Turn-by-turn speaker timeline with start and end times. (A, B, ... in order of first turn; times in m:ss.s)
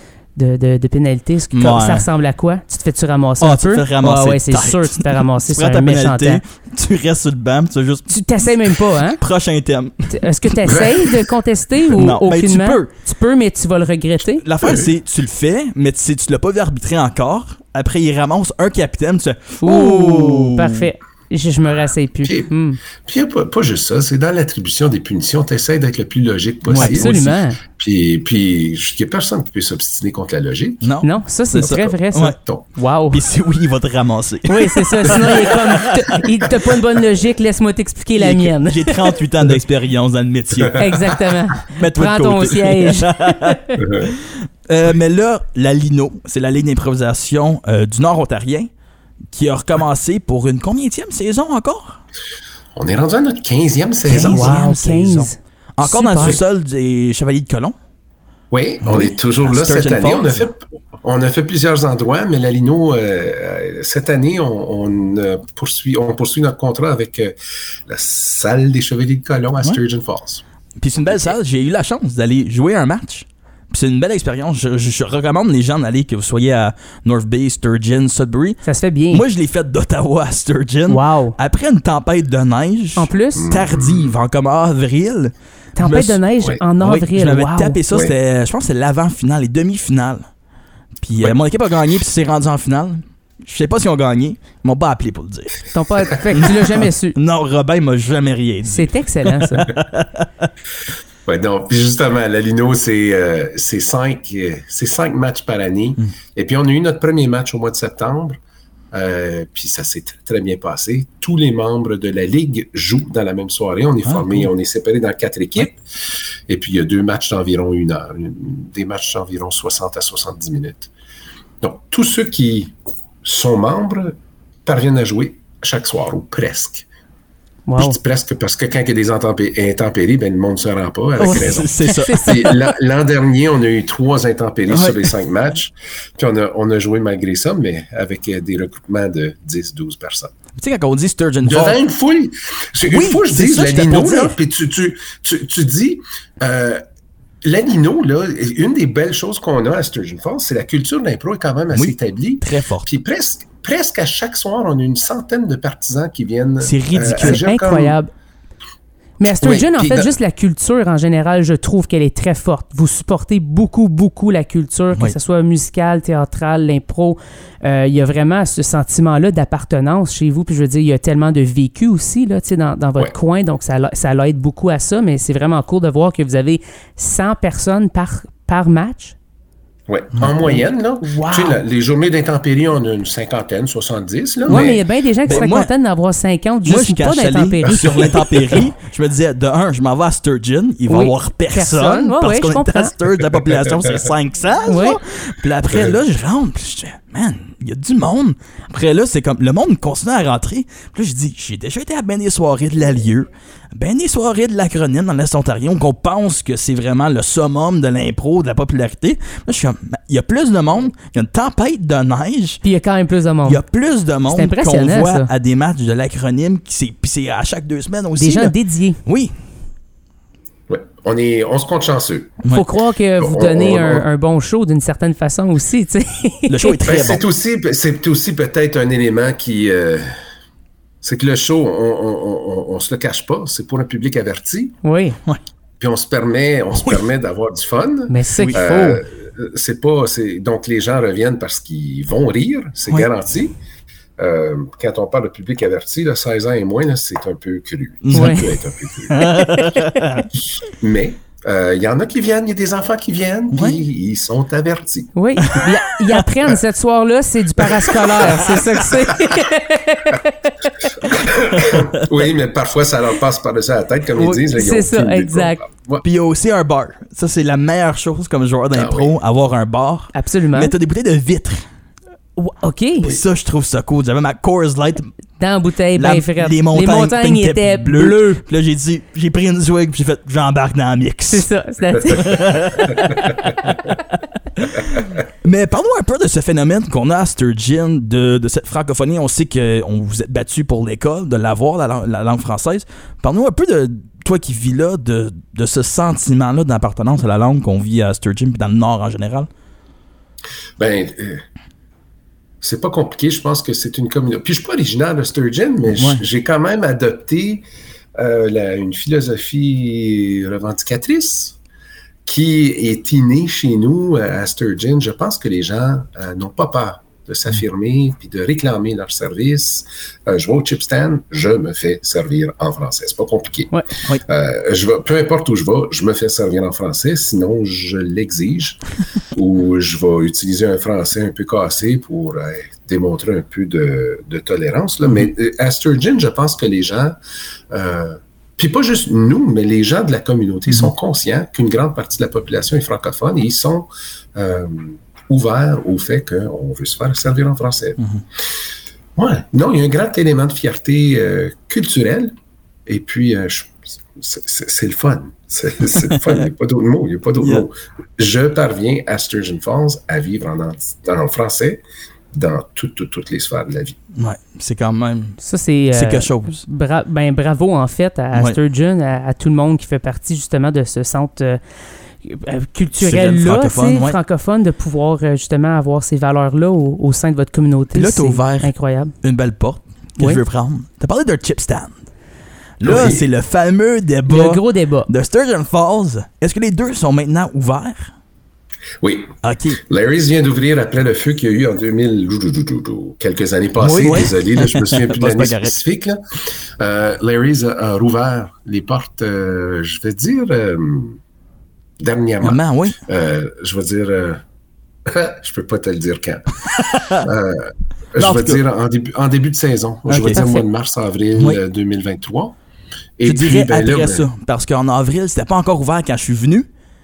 0:00.4-0:06.4 A
0:01.5-0:02.1 B
0:03.4-0:10.8 B
0:08.1-0:09.2 A
0:10.1-0:14.4 A
0:10.7-0:11.1 C
0:11.9-0:12.9 B
0:14.4-0:20.8 B
0:14.6-0:14.9 C
0:19.6-0:22.8 A
0:22.2-0:22.5 C
0:23.0-0:30.9 C
0:26.7-0:27.4 B
0:26.8-0:27.6 A
0:30.8-0:32.4 B
0:31.0-0:33.2 A
0:31.6-0:32.6 C
0:33.1-0:36.2 B
0:34.5-0:39.2 A
0:38.2-0:48.7 B
0:40.7-0:43.8 A
0:43.8-0:44.1 C
0:49.3-0:52.0 B
0:52.8-0:54.6 C
0:54.1-0:56.4 A
0:54.1-0:57.8 B
0:58.5-1:07.4 C
0:58.8-1:00.4 B
1:07.9-1:10.4 C
1:10.8-1:26.2 B
1:11.0-1:11.4 C
1:18.6-1:19.2 A
1:20.9-1:21.4 A
1:23.0-1:23.5 A
1:23.4-1:24.2 C
1:25.8-1:27.8 A
1:26.8-1:30.3 B
1:31.0-1:35.6 B
1:35.7-1:37.2 A
1:36.4-1:40.5 B
1:38.6-1:39.7 A
1:41.3-1:48.4 C
1:48.9-1:55.8 C
1:54.1-1:54.5 B
1:56.5-2:00.9 C
2:01.6-2:06.9 C
2:07.7-2:08.0 A
2:07.8-2:20.3 C
2:11.2-2:12.6 B
2:11.2-2:12.5 A
2:14.7-2:15.1 B
2:20.6-2:21.8 B
2:21.4-2:26.8 C
2:22.9-2:24.4 B
2:27.4-2:38.0 C
2:31.7-2:32.9 B
2:36.6-2:37.4 B
2:37.0-2:38.1 A
2:39.2-2:59.2 A
2:39.2-2:40.1 C
2:59.9-3:04.8 C
3:00.4-3:01.6 A
3:04.5-3:08.4 A
3:04.5-3:04.7 B
3:05.2-3:05.7 B
3:06.7-3:32.6 B
3:07.8-3:08.6 C
3:10.9-3:12.9 A
3:14.7-3:15.0 A
3:32.6-3:33.6 A
3:33.4-3:38.5 B
3:34.3-3:35.3 A
3:38.2-3:39.0 A
3:39.0-3:39.3 B
3:40.7-3:42.4 C
3:42.5-3:47.0 A
3:43.2-3:44.1 C
3:46.5-3:47.2 B
3:46.8-3:50.1 C
3:51.0-3:54.8 C
3:54.8-3:55.2 A
3:55.8-4:03.6 C
3:58.1-3:59.0 A
4:04.2-4:09.3 C
4:08.0-4:08.6 B
4:08.1-4:08.5 A
4:09.1-4:10.3 B
4:09.2-4:10.0 A
4:10.8-4:15.6 C
4:13.5-4:13.8 B
4:15.2-4:21.1 A
4:17.6-4:19.5 C
4:20.8-4:26.0 C
4:21.6-4:22.0 B
4:24.2-4:25.6 A
4:26.0-4:31.6 B
4:28.7-4:29.1 C
4:30.1-4:30.7 A
4:32.4-4:33.1 A
4:33.0-4:35.1 B
4:35.4-4:38.4 A
4:36.0-4:41.4 B
4:41.3-4:43.1 A
4:42.1-4:43.4 B
4:44.6-4:59.5 B
5:00.8-5:01.4 C
5:02.6-5:07.6 C
5:08.2-5:11.6 C
5:12.2-5:28.8 C
5:29.3-5:37.2 C
5:37.7-5:48.0 C
5:49.2-5:52.3 C
5:52.9-6:04.0 C
6:04.2-6:05.4 B
6:05.4-6:11.6 A
6:05.9-6:06.6 B
6:12.2-6:19.1 A
6:13.0-6:14.2 B
6:17.9-6:22.1 B
6:22.8-6:28.1 B
6:22.8-6:23.3 C
6:24.3-6:25.1 A
6:29.0-6:41.2 C
6:29.4-6:29.8 B
6:33.8-6:35.8 B
6:42.0-6:44.4 C
6:42.4-6:43.0 B
6:45.1-6:52.6 C
6:46.8-6:47.3 B
6:48.2-6:48.6 B
6:50.1-6:50.7 A
6:53.2-6:54.3 C
6:53.2-6:56.7 B